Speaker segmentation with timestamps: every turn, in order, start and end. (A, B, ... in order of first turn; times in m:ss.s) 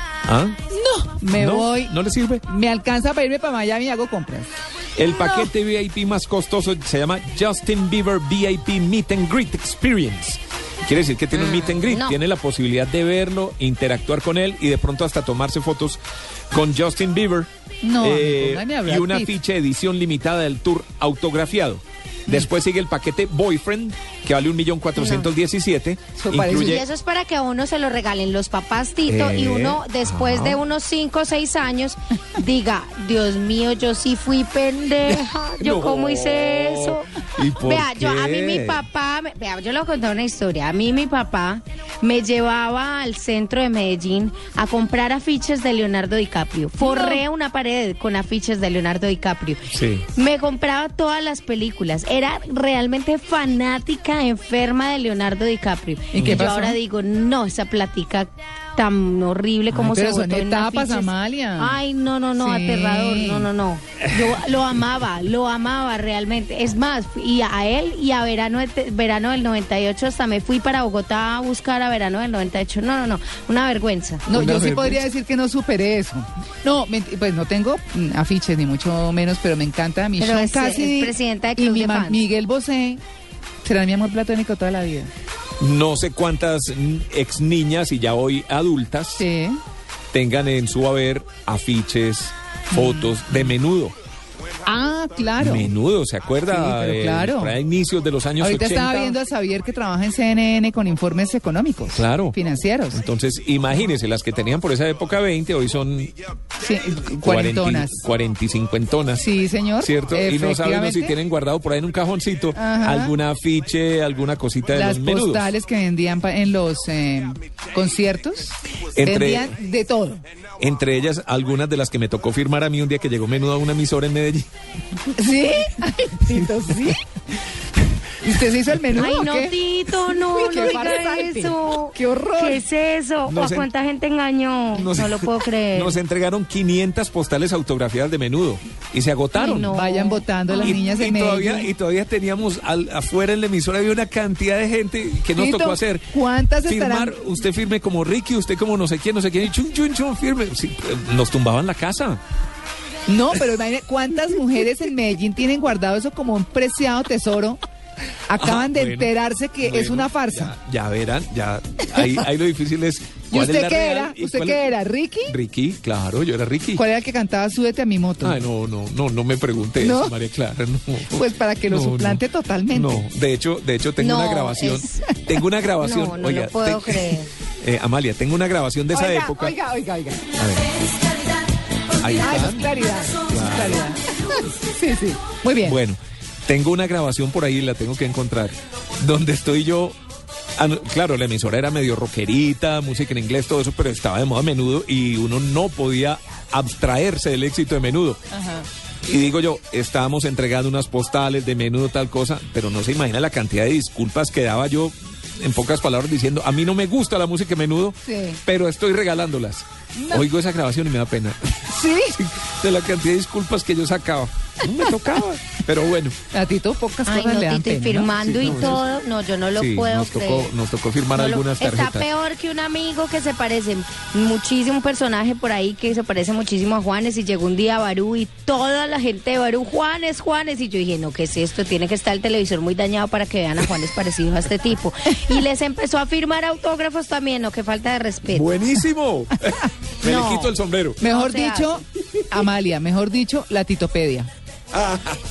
0:00.3-0:00.6 A
0:00.7-0:01.9 B
0:01.3-0:02.5 A
0:02.5-0:04.5 B
0:05.0-0:16.0 A
0:05.2-0:05.5 B
0:11.3-0:12.2 C
0:16.5-0:17.5 A
0:17.8-0:19.3 B
0:18.0-0:26.8 A
0:25.0-0:25.3 C
0:26.2-0:26.8 B
0:26.5-1:14.3 C
0:29.1-0:30.6 A
0:35.1-0:38.8 A
0:46.8-0:47.2 B
0:49.7-0:50.0 A
0:56.1-0:56.8 B
0:56.2-0:56.5 A
0:59.7-1:01.8 B
1:02.4-1:03.5 B
1:14.3-1:23.0 B
1:14.3-1:15.0 A
1:20.2-1:22.2 C
1:23.6-1:25.1 B
1:25.6-1:29.3 A
1:29.2-1:29.6 B
1:30.1-1:33.9 A
1:32.7-1:33.3 B
1:34.7-1:35.7 B
1:35.4-1:39.2 A
1:36.5-1:37.6 B
1:38.4-1:43.0 B
1:41.9-1:42.4 A
1:42.9-1:46.2 A
1:46.6-1:48.0 B
1:47.2-1:49.3 A
1:49.2-1:51.2 B
1:49.8-1:55.5 A
1:52.6-1:53.2 B
1:54.7-2:00.2 B
1:59.0-1:59.6 A
2:00.6-2:04.5 A
2:05.2-2:07.0 B
2:08.2-2:09.6 B
2:09.0-2:16.0 C
2:10.2-2:12.6 B
2:13.3-2:13.7 A
2:14.7-2:19.8 A
2:19.4-2:20.8 C
2:19.7-2:21.7 B
2:20.6-2:26.1 A
2:25.4-2:27.2 B
2:26.6-2:32.2 A
2:33.1-2:37.6 B
2:38.3-2:40.5 B
2:38.4-2:44.7 A
2:43.3-2:45.3 B
2:45.3-2:46.8 A
2:46.8-2:48.4 B
2:48.2-2:52.2 A
2:49.8-2:50.2 B
2:51.1-2:53.0 B
2:52.7-2:57.1 A
2:54.0-2:55.1 C
2:55.8-2:57.3 C
2:57.6-2:59.6 A
2:58.9-3:00.3 B
3:00.4-3:00.8 A
3:02.0-3:03.8 A
3:02.2-3:05.8 B
3:05.6-3:10.0 A
3:10.6-3:18.2 A
3:18.3-3:18.7 B
3:19.1-3:36.2 A
3:28.0-3:28.4 B
3:30.0-3:30.3 B
3:31.7-3:32.2 B
3:36.3-3:38.8 B
3:37.1-3:40.5 C
3:38.2-3:38.8 A
3:39.6-3:42.1 A
3:41.1-3:58.5 C
3:58.3-4:01.0 A
4:00.0-4:00.5 C
4:01.0-4:04.3 B
4:01.0-4:01.8 C
4:04.7-4:05.2 A